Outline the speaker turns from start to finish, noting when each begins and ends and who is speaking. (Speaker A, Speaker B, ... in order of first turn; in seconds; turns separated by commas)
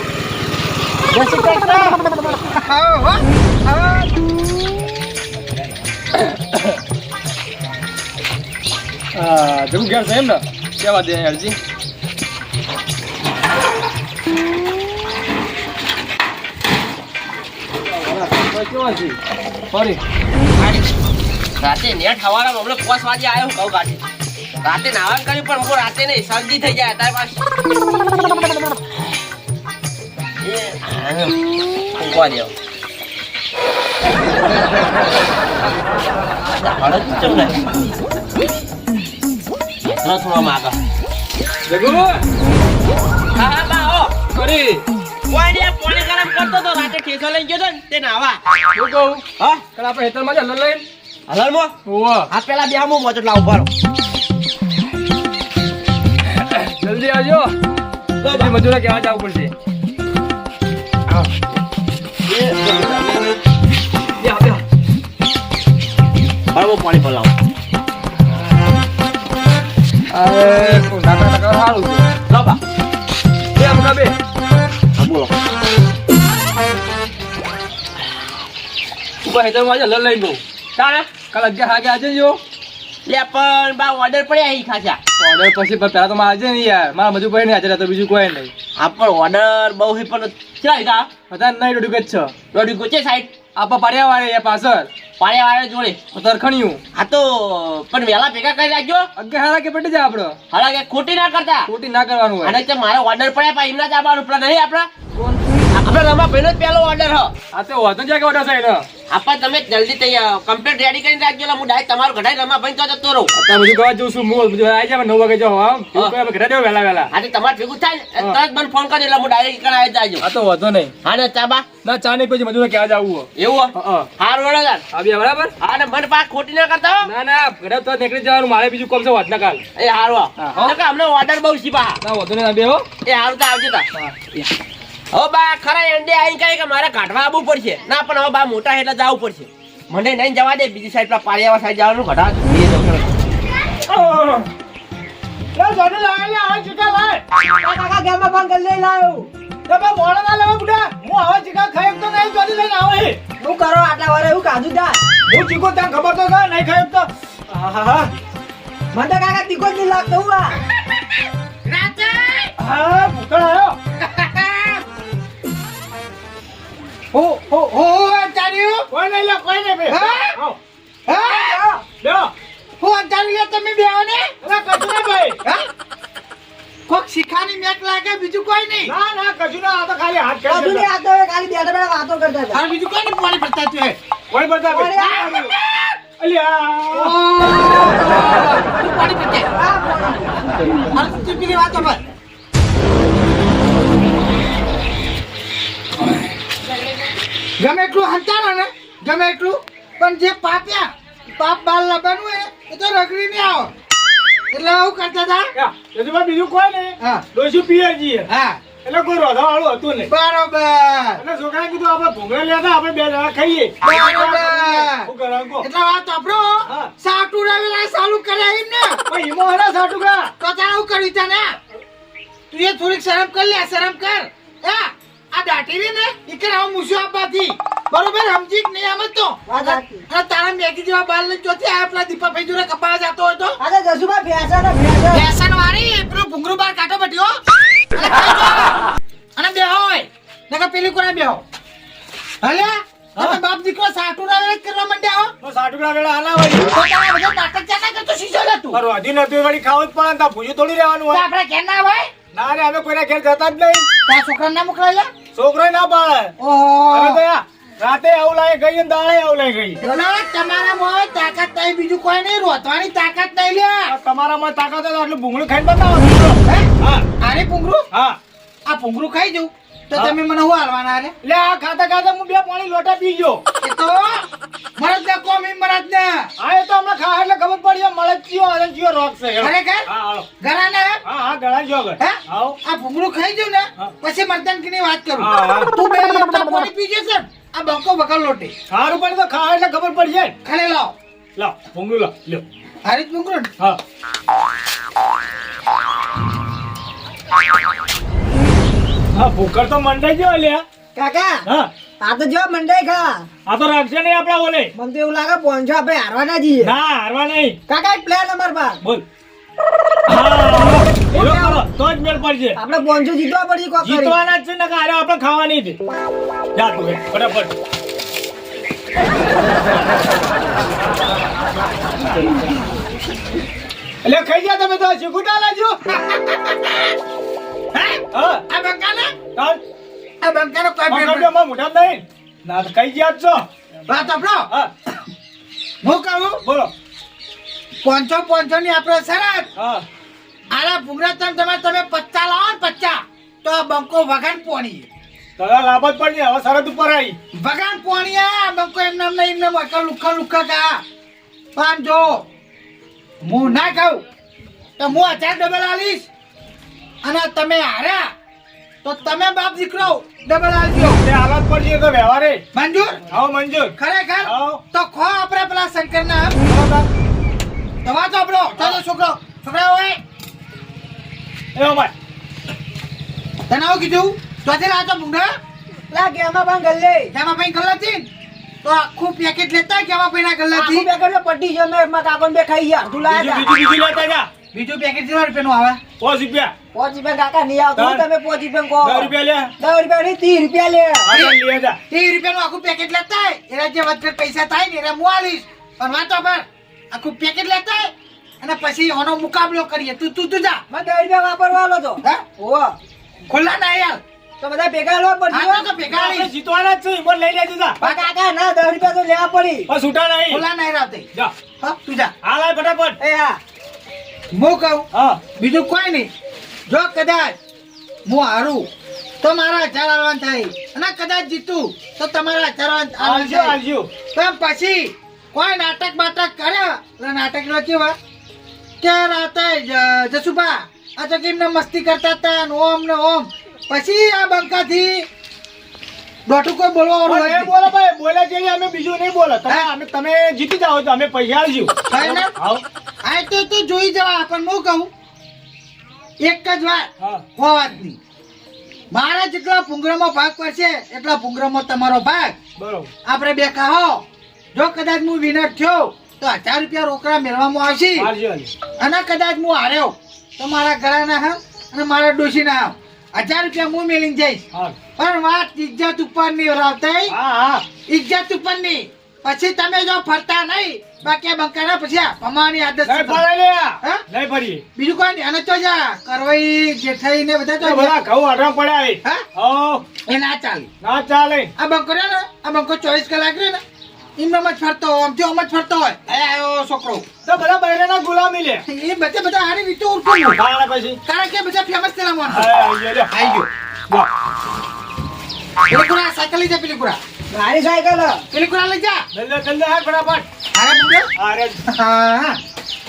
Speaker A: 1.1-4.2, Speaker B: 9.2-11.6, Speaker B: 17.9-19.2, Speaker B: 19.7-20.0, Speaker C: 21.6-24.0, Speaker C: 24.6-27.4, Speaker C: 30.4-31.4, Speaker C: 32.0-32.5, Speaker C: 36.6-37.6, Speaker C: 39.9-40.8, Speaker B: 41.7-42.3, Speaker C: 43.4-44.2, Speaker B: 44.4-44.8, Speaker C: 45.3-48.4, Speaker B: 48.8-49.2, Speaker C: 49.4-49.6, Speaker B: 49.8-50.9, Speaker C: 51.3-51.8, Speaker B: 51.9-52.3, Speaker C: 52.3-53.7, Speaker B: 56.5-57.5, Speaker B: 58.2-59.5, Speaker C: 62.3-63.3, Speaker B: 64.2-64.6, Speaker C: 66.5-67.3, Speaker B: 70.1-72.0, Speaker C: 72.3-72.6, Speaker B: 73.6-74.2, Speaker C: 75.0-75.3, Speaker B: 79.2-80.4, Speaker C: 80.8-81.1, Speaker B: 81.2-82.4, Speaker C: 83.1-85.0, Speaker B: 85.2-88.5, Speaker C: 88.8-91.1, Speaker B: 91.3-92.4, Speaker C: 92.5-93.4, Speaker B: 93.6-94.9, Speaker C: 95.2-96.0, Speaker B: 96.1-96.8, Speaker C: 97.0-99.1, Speaker B: 99.2-100.4, Speaker C: 100.5-101.7, Speaker B: 101.7-102.6, Speaker C: 102.4-104.9, Speaker C: 105.7-107.3, Speaker B: 107.5-108.9, Speaker C: 109.1-113.3, Speaker B: 113.4-117.1, Speaker C: 117.1-120.3, Speaker B: 120.2-120.9, Speaker C: 121.0-121.7, Speaker B: 121.8-124.1, Speaker C: 123.4-124.8, Speaker B: 124.9-125.5, Speaker C: 125.6-127.1, Speaker B: 127.0-129.6, Speaker C: 129.8-132.0, Speaker B: 130.4-130.7, Speaker B: 132.0-132.9, Speaker C: 133.0-133.9, Speaker C: 135.1-143.1, Speaker D: 143.8-144.5, Speaker D: 145.6-147.2, Speaker E: 147.6-149.3, Speaker D: 149.7-153.2, Speaker E: 153.4-155.0, Speaker D: 155.3-158.1, Speaker E: 158.9-160.6, Speaker A: 161.7-162.5, Speaker D: 162.6-163.8, Speaker A: 164.0-164.8, Speaker A: 167.1-168.9, Speaker D: 168.9-170.6, Speaker A: 169.9-170.4, Speaker A: 171.1-171.7, Speaker E: 171.3-171.8, Speaker D: 171.9-172.3, Speaker A: 172.8-174.3, Speaker D: 174.4-175.4, Speaker A: 176.9-178.9, Speaker D: 178.9-180.9, Speaker E: 180.5-182.6, Speaker A: 182.5-184.0, Speaker D: 184.3-185.5, Speaker E: 184.7-185.5, Speaker D: 186.2-187.2, Speaker A: 186.9-189.5, Speaker E: 189.6-190.3, Speaker A: 190.9-192.0, Speaker A: 197.6-203.7, Speaker A: 204.5-205.5, Speaker D: 205.6-208.3, Speaker A: 208.3-208.6, Speaker D: 208.8-210.1, Speaker A: 210.1-211.2, Speaker D: 211.2-215.7, Speaker A: 213.8-215.1, Speaker A: 215.6-219.0, Speaker D: 219.1-220.3, Speaker A: 220.4-221.5, Speaker A: 222.5-233.6, Speaker E: 229.5-230.0, Speaker E: 233.6-235.3, Speaker A: 235.1-237.4, Speaker A: 237.9-238.8, Speaker A: 239.4-241.4, Speaker A: 242.4-245.3, Speaker D: 245.4-246.8, Speaker A: 246.6-248.8, Speaker D: 248.7-251.2, Speaker A: 251.1-252.1, Speaker D: 252.3-253.9, Speaker A: 254.1-255.1, Speaker D: 255.3-256.4, Speaker A: 256.4-257.2, Speaker D: 256.9-259.8, Speaker A: 259.8-263.9, Speaker D: 263.9-267.1, Speaker A: 267.2-267.9, Speaker D: 267.9-268.2, Speaker A: 268.7-271.1, Speaker D: 271.2-273.4, Speaker A: 273.6-274.2, Speaker A: 274.8-276.3, Speaker D: 276.4-280.3, Speaker A: 279.4-279.9, Speaker A: 280.4-281.0, Speaker D: 281.1-282.6, Speaker A: 282.0-288.5, Speaker D: 285.2-285.7, Speaker D: 288.7-290.4, Speaker A: 290.4-290.9, Speaker D: 291.4-292.4, Speaker A: 292.9-293.5, Speaker D: 299.1-300.6, Speaker E: 300.9-301.4, Speaker E: 302.0-303.3, Speaker D: 303.5-304.7, Speaker E: 304.8-306.7, Speaker D: 306.6-307.6, Speaker E: 307.7-308.8, Speaker D: 310.1-312.6, Speaker E: 311.1-311.6, Speaker E: 312.6-314.2, Speaker D: 313.8-315.8, Speaker D: 316.6-317.5, Speaker D: 324.0-325.9, Speaker A: 326.1-326.8, Speaker A: 327.7-329.2, Speaker D: 328.1-328.4, Speaker D: 329.4-329.6, Speaker A: 330.2-331.3, Speaker D: 330.9-333.5, Speaker A: 333.9-334.5, Speaker A: 335.8-336.4, Speaker D: 336.4-336.7, Speaker A: 337.9-339.5, Speaker D: 339.6-339.9, Speaker A: 340.5-344.9, Speaker D: 345.4-347.2, Speaker A: 347.4-350.8, Speaker A: 351.6-352.2, Speaker A: 353.2-354.0, Speaker A: 354.8-356.1, Speaker A: 357.0-358.1, Speaker A: 358.8-361.0, Speaker D: 360.8-362.4, Speaker A: 362.5-363.0, Speaker D: 363.1-364.6, Speaker A: 363.8-366.3, Speaker D: 366.4-366.9, Speaker A: 367.8-370.0, Speaker D: 368.5-368.8, Speaker D: 371.6-371.9, Speaker A: 373.5-375.3, Speaker E: 375.9-377.1, Speaker A: 377.1-378.1, Speaker A: 378.6-380.9, Speaker E: 380.5-383.5, Speaker D: 383.1-384.3, Speaker A: 384.5-385.8, Speaker D: 386.0-386.5, Speaker E: 386.7-391.1, Speaker D: 387.8-388.1, Speaker D: 388.8-389.5, Speaker D: 391.1-391.8, Speaker A: 391.1-391.4, Speaker A: 391.9-400.6, Speaker E: 400.7-402.7, Speaker A: 403.3-404.0, Speaker E: 404.4-405.7, Speaker A: 405.3-406.3, Speaker D: 405.9-407.8, Speaker E: 407.8-409.7, Speaker A: 407.8-408.1, Speaker D: 409.7-410.4, Speaker A: 410.3-411.1, Speaker A: 411.6-412.1, Speaker D: 412.2-413.0, Speaker E: 413.0-413.4, Speaker A: 414.3-416.1, Speaker D: 414.9-415.2, Speaker A: 416.7-417.4, Speaker A: 418.1-418.7, Speaker A: 419.2-423.6, Speaker D: 423.0-423.9, Speaker A: 424.1-427.9, Speaker A: 428.8-435.1, Speaker A: 436.3-437.6, Speaker D: 437.1-442.6, Speaker A: 441.9-442.4, Speaker A: 443.0-444.9, Speaker A: 446.2-448.0, Speaker D: 447.0-447.2, Speaker A: 448.9-452.4, Speaker D: 452.6-452.9, Speaker A: 453.1-454.0, Speaker A: 454.6-458.1, Speaker D: 458.0-458.5, Speaker A: 458.8-464.4, Speaker A: 465.0-467.1, Speaker D: 467.1-467.7, Speaker A: 467.9-473.2, Speaker D: 472.9-474.6, Speaker A: 474.8-477.9, Speaker D: 477.6-479.9, Speaker A: 480.1-480.7, Speaker D: 480.8-481.5, Speaker A: 481.6-483.6, Speaker A: 484.2-487.1, Speaker D: 487.2-488.6, Speaker A: 488.7-490.4, Speaker D: 490.4-491.0, Speaker A: 491.1-492.5, Speaker D: 492.3-493.1, Speaker A: 493.1-493.5, Speaker A: 495.7-497.0, Speaker E: 497.3-498.2, Speaker A: 498.3-499.0, Speaker D: 499.1-500.3, Speaker A: 500.6-501.1, Speaker D: 501.2-501.6, Speaker A: 501.7-502.4